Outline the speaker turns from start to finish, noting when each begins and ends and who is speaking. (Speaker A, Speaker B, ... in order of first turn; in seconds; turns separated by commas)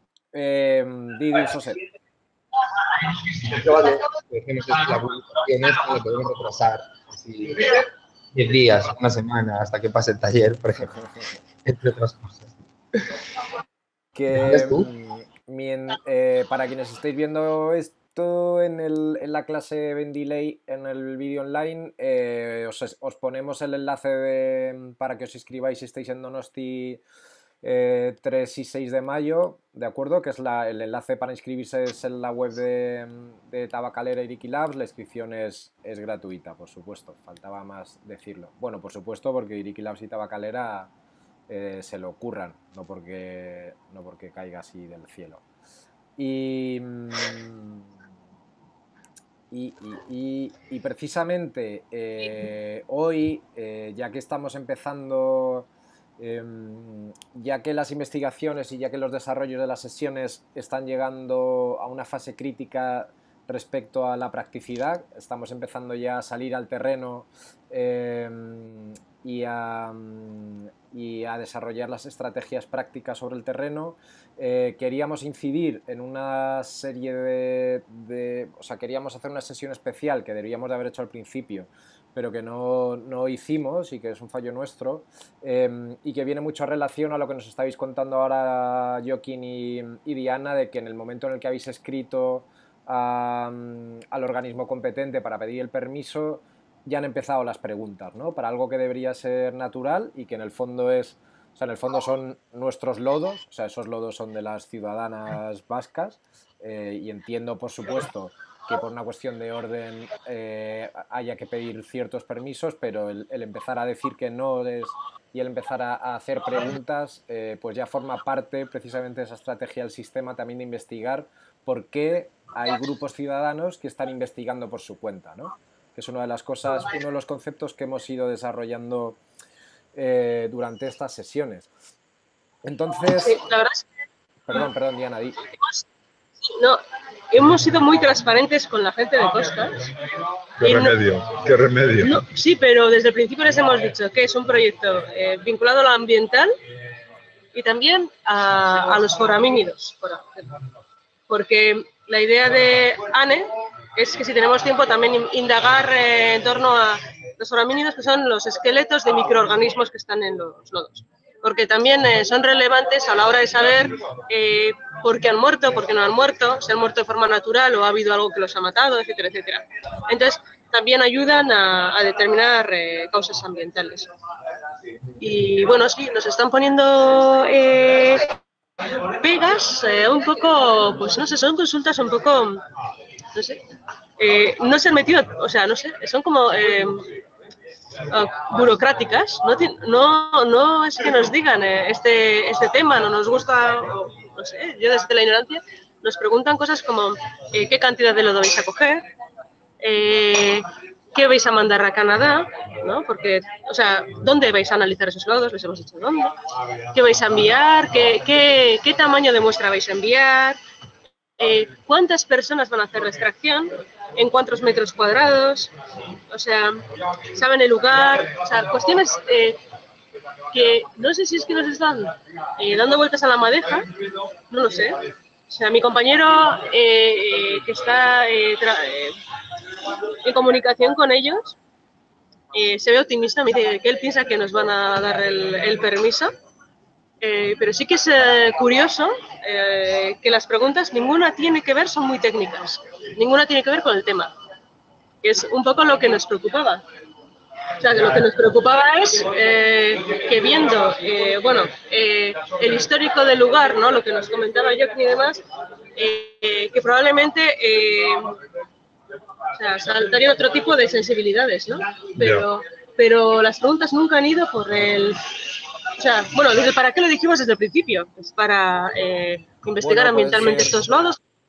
Speaker A: 0.3-1.8, Speaker B: 3.2-10.9, Speaker B: 11.6-12.5, Speaker A: 14.2-27.0, Speaker B: 14.3-14.9, Speaker A: 27.6-40.9, Speaker A: 41.5-45.4, Speaker A: 46.2-47.8, Speaker A: 49.5-55.7, Speaker A: 56.2-129.2, Speaker A: 129.9-131.7, Speaker A: 132.6-133.4, Speaker C: 133.2-133.9, Speaker A: 134.5-135.4, Speaker C: 135.6-135.8, Speaker C: 136.4-139.8, Speaker D: 140.6-142.2, Speaker C: 140.6-141.0, Speaker C: 142.0-146.5, Speaker C: 147.5-150.6, Speaker C: 151.3-174.1, Speaker C: 175.2-178.4, Speaker C: 179.1-182.6, Speaker C: 183.3-183.6, Speaker C: 184.2-187.1, Speaker C: 188.1-199.1, Speaker C: 199.8-206.4, Speaker C: 206.9-210.6, Speaker C: 211.4-215.7, Speaker C: 216.3-219.6, Speaker C: 220.5-229.2, Speaker C: 230.2-231.6, Speaker C: 232.5-236.3, Speaker C: 237.2-244.3, Speaker C: 245.2-246.8, Speaker C: 247.8-255.4, Speaker C: 255.9-258.4, Speaker C: 259.5-265.3, Speaker D: 262.2-262.5, Speaker C: 265.9-271.2, Speaker A: 269.8-270.8